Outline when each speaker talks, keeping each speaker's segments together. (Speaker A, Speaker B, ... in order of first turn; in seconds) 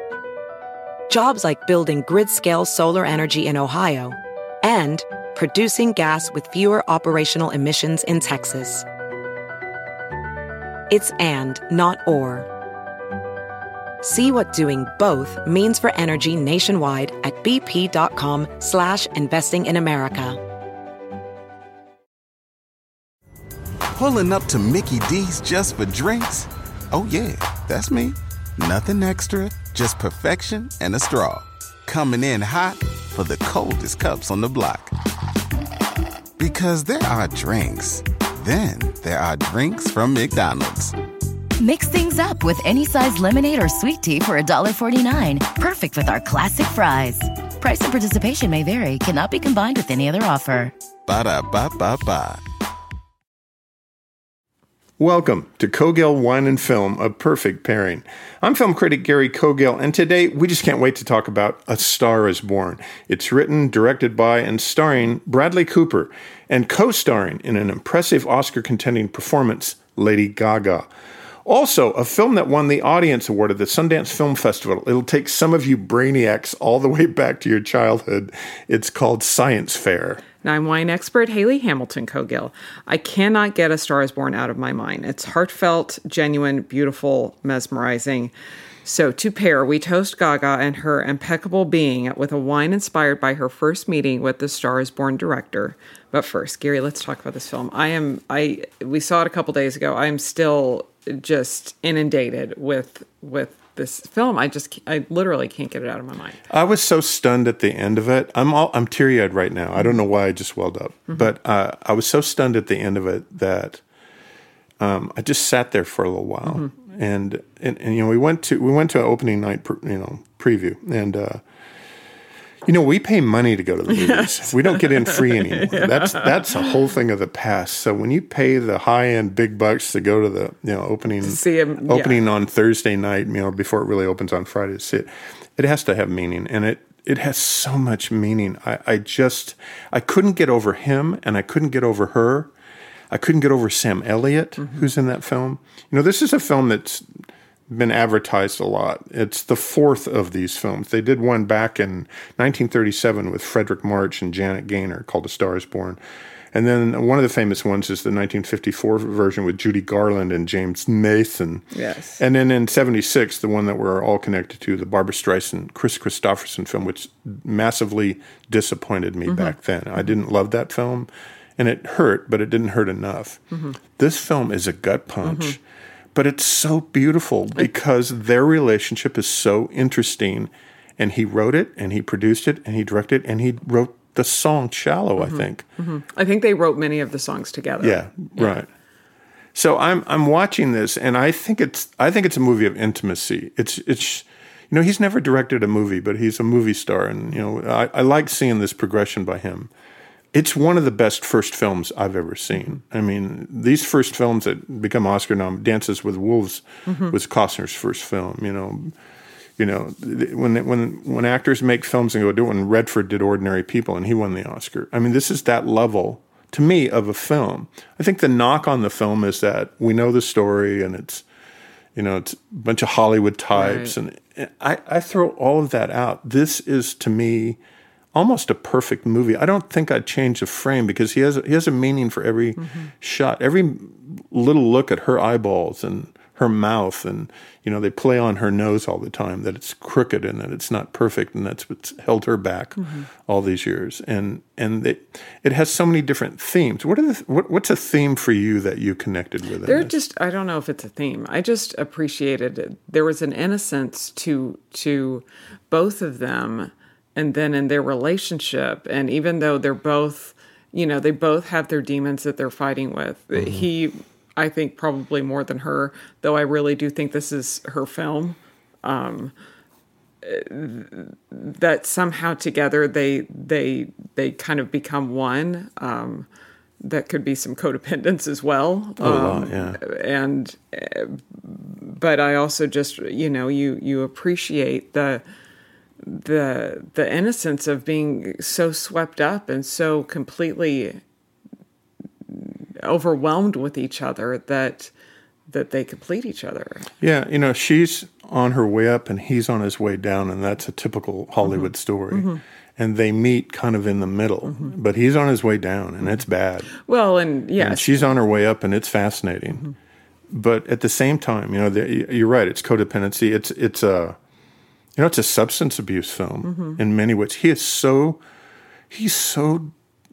Speaker A: 1.1-8.8, 10.9-12.5, 14.0-20.4
Speaker B: 23.9-34.9, 36.4-40.9, 51.0-52.4
Speaker C: 41.6-50.7
Speaker D: 55.0-70.9, 71.4-80.2, 106.5-113.8, 114.8-121.4, 122.6-142.5, 143.1-156.0, 156.5-161.6, 162.2-173.4, 173.9-175.6, 176.1-185.6, 187.8-188.7, 189.5-199.7, 200.3-208.9, 209.6-221.2, 221.9-227.6, 228.1-249.9, 263.4-263.6, 279.0-279.8, 297.0-306.7, 307.6-309.7, 310.3-314.2, 315.0-318.2, 318.9-319.7
Speaker E: 80.4-88.3, 88.8-106.4, 124.0-126.3, 131.2-132.2, 161.7-162.2, 169.3-169.5, 175.2-175.6, 185.2-188.6, 206.8-207.1, 223.5-223.9, 232.6-232.9, 242.8-243.1, 249.7-269.3, 270.2-276.3, 276.8-285.2, 286.0-291.0, 292.3-294.9, 295.5-296.9, 301.4-302.4, 306.8-308.1, 316.4-316.8